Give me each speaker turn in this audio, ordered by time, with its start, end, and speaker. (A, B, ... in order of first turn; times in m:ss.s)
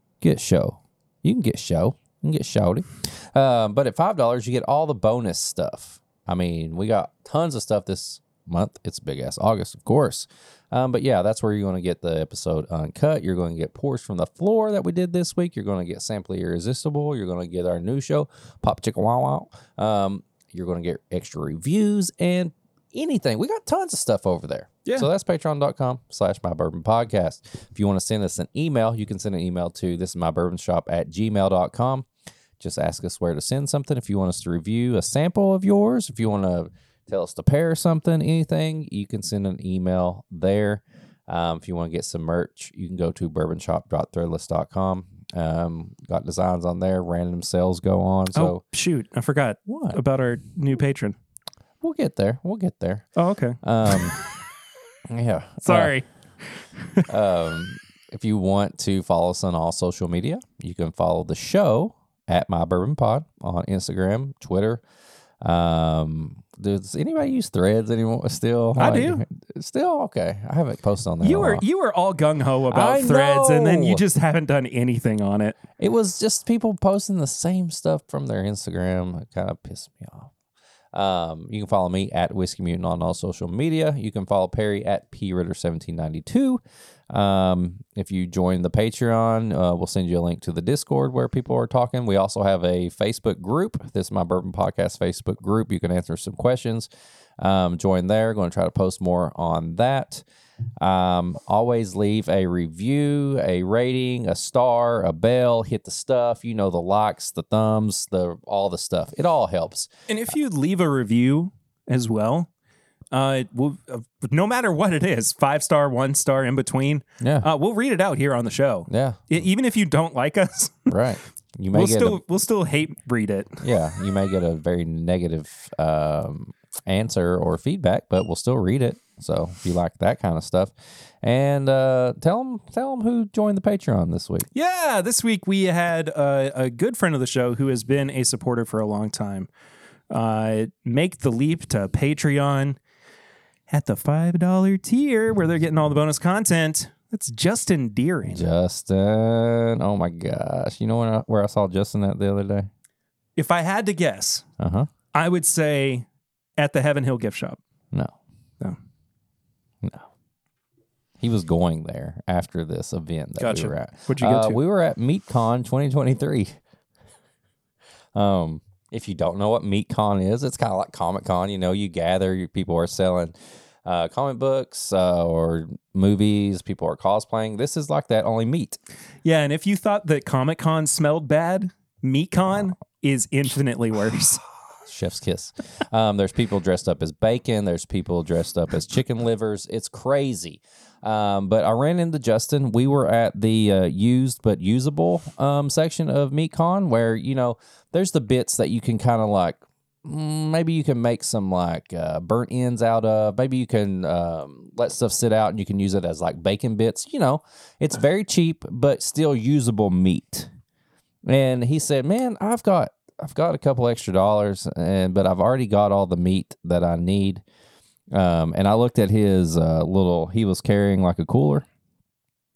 0:00.2-0:32.1 A
0:32.6-0:48.6 A
0:48.3-0:51.2 B
0:49.7-0:50.0 A
0:51.8-0:53.0 A
0:53.2-0:54.4 B
0:53.6-0:54.2 A
0:55.1-0:55.9 A
0:55.6-0:57.1 B
0:57.1-1:04.8 A
1:05.4-1:11.6 A
1:08.8-1:09.2 B
1:11.2-1:15.6 B
1:12.7-1:14.0 A
1:15.8-1:20.3 A
1:20.9-1:40.2 A
1:40.8-1:49.9 A
1:50.1-1:52.5 B
1:53.1-2:01.0 B
1:57.2-1:57.5 A
1:58.9-1:59.3 A
2:00.9-2:02.2 A
2:01.7-2:03.6 B
2:03.6-2:14.5 A
2:14.5-2:19.5 B
2:20.1-2:22.8 B
2:23.7-2:28.4 B
2:28.3-2:32.7 A
2:33.4-2:34.5 B
2:34.6-2:34.9 A
2:35.1-2:36.1 B
2:36.6-2:37.6 B
2:39.8-2:40.1 A
2:41.2-2:46.6 A
2:43.4-2:44.6 B
2:48.1-2:58.8 A
2:59.2-3:04.4 B
3:04.9-3:30.5 A
3:31.3-3:37.4 A
3:38.1-3:41.6 A